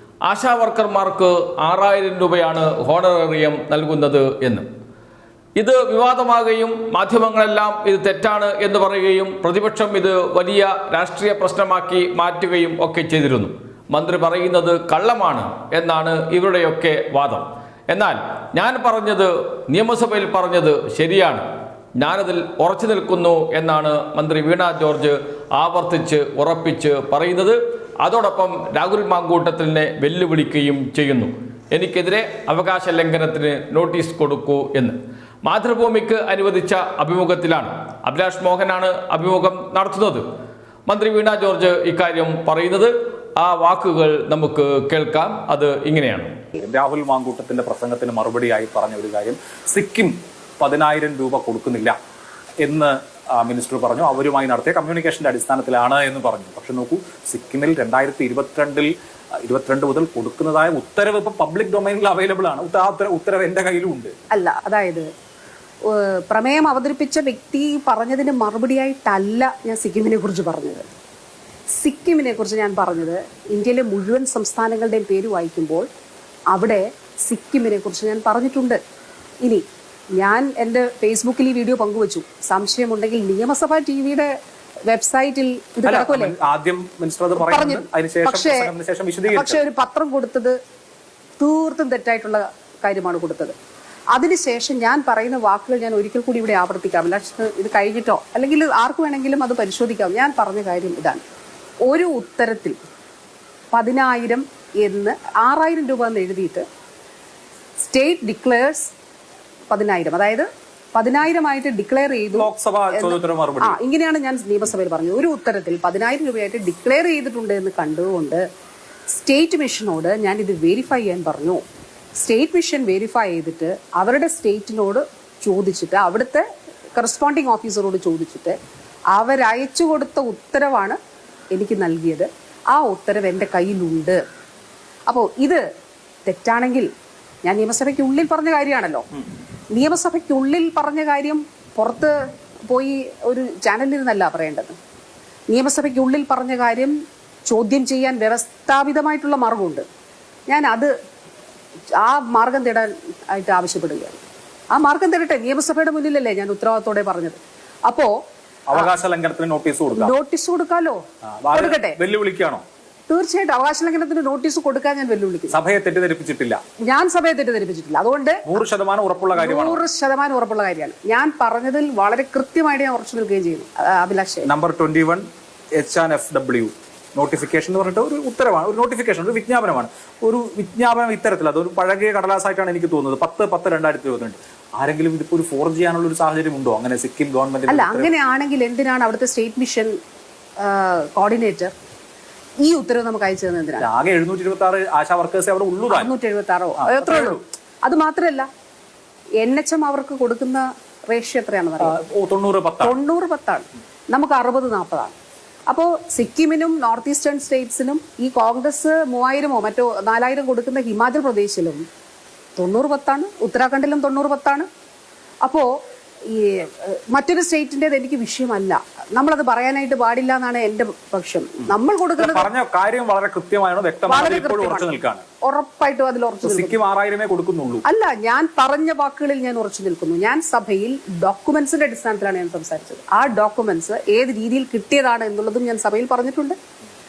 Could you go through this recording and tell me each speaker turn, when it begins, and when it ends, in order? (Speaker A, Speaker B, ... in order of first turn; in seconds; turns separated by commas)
Speaker A: 0.2-4.7, Speaker A: 5.6-21.4, Speaker A: 22.0-40.2, Speaker A: 40.9-46.4, Speaker B: 46.6-52.0, Speaker B: 52.6-58.9, Speaker B: 59.4-64.1, Speaker C: 64.3-65.0, Speaker C: 65.9-70.9, Speaker C: 71.8-75.9, Speaker C: 76.5-78.8, Speaker C: 80.2-84.3, Speaker C: 84.9-86.3, Speaker B: 85.8-89.6, Speaker C: 87.4-88.7, Speaker C: 89.3-90.5, Speaker C: 91.4-93.5, Speaker C: 94.1-101.2, Speaker C: 101.9-102.8, Speaker C: 103.7-106.7, Speaker C: 107.8-108.9, Speaker C: 109.7-118.4, Speaker B: 112.3-113.8, Speaker C: 119.1-121.6, Speaker C: 122.2-126.4, Speaker C: 127.0-128.6, Speaker C: 129.2-131.0, Speaker C: 131.5-134.2, Speaker C: 135.1-135.6, Speaker C: 136.3-136.9, Speaker C: 137.5-139.1, Speaker C: 139.8-142.1, Speaker C: 142.7-144.8, Speaker C: 145.5-146.9, Speaker C: 147.5-149.8, Speaker C: 150.5-150.9, Speaker C: 152.0-154.2, Speaker C: 154.8-158.1, Speaker B: 158.7-160.1, Speaker C: 159.9-161.0, Speaker B: 161.4-162.6, Speaker C: 161.5-162.0, Speaker C: 163.1-165.6, Speaker B: 165.5-166.6, Speaker C: 166.9-168.4, Speaker B: 168.4-169.8, Speaker C: 169.3-174.5, Speaker B: 174.4-188.1, Speaker C: 187.7-189.9, Speaker C: 190.6-191.7, Speaker C: 192.6-193.9, Speaker B: 193.8-196.1, Speaker C: 195.9-198.5, Speaker B: 196.8-197.4, Speaker C: 199.4-202.0, Speaker B: 201.8-203.0, Speaker C: 202.8-205.1, Speaker C: 205.7-211.8, Speaker C: 212.6-214.7, Speaker C: 216.3-222.5, Speaker B: 222.2-225.2, Speaker C: 224.1-224.9, Speaker C: 225.5-226.8, Speaker B: 226.4-227.8, Speaker C: 227.9-236.6